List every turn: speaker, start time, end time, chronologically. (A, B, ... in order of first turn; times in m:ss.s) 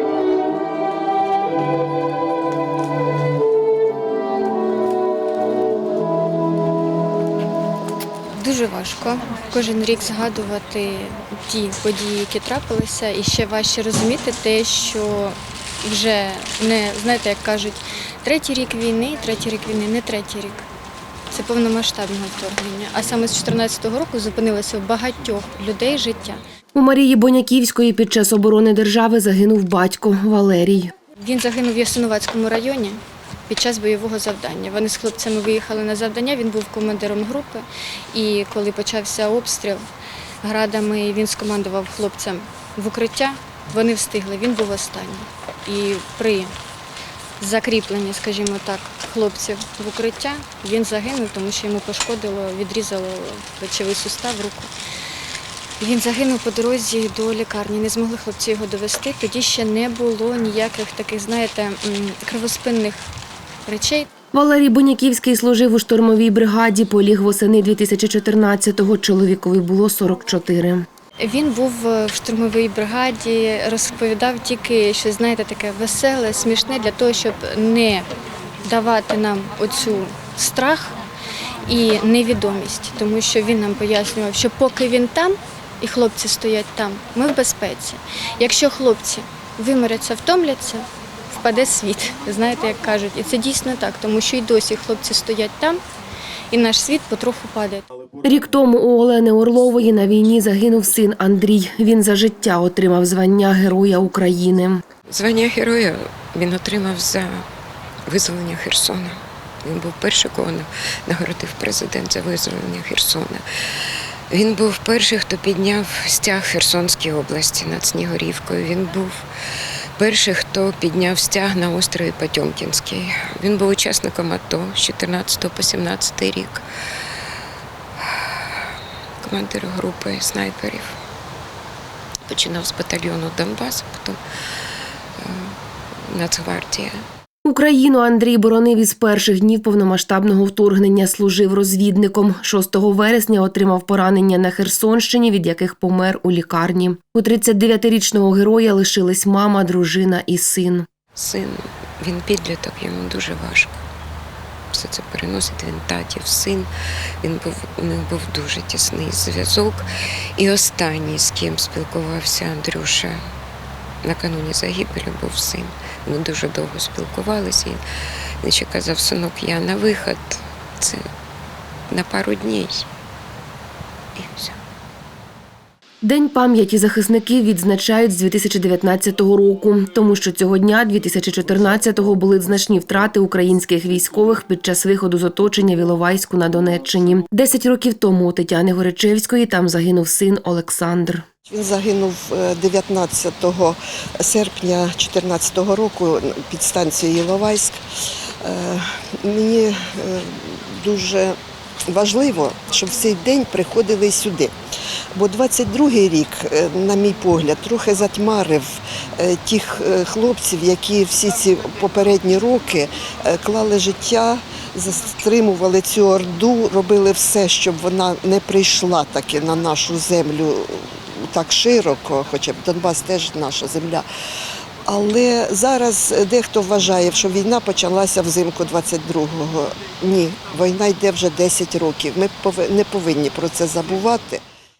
0:08.3-0:20.7 A
0:21.3-0:26.4 A
0:26.7-0:30.9 B
0:31.2-0:39.9 A
0:40.4-0:46.5 A
0:47.4-0:54.7 A
0:55.8-1:03.1 A
1:03.7-1:04.1 A
1:04.3-1:10.8 B
1:11.2-1:18.1 A
1:18.7-1:21.0 A
1:21.7-1:35.8 A
1:36.5-1:37.8 A
1:38.2-1:44.8 B
1:45.1-1:47.4 C
1:48.1-1:59.3 C
2:00.0-2:07.2 C
2:08.0-2:10.9 C
2:12.3-2:15.6 C
2:16.1-2:17.0 C
2:17.4-2:30.9 B
2:31.2-2:33.8 C
2:34.7-2:36.7 C
2:37.2-2:43.2 C
2:44.0-2:47.8 C
2:48.4-2:51.0 C
2:51.9-2:52.9 C
2:54.2-2:54.6 C
2:56.0-3:11.2 B
3:11.5-3:17.8 D
3:18.4-3:21.4 D
3:21.9-3:24.5 D
3:25.2-3:44.1 D
3:44.9-3:54.4 D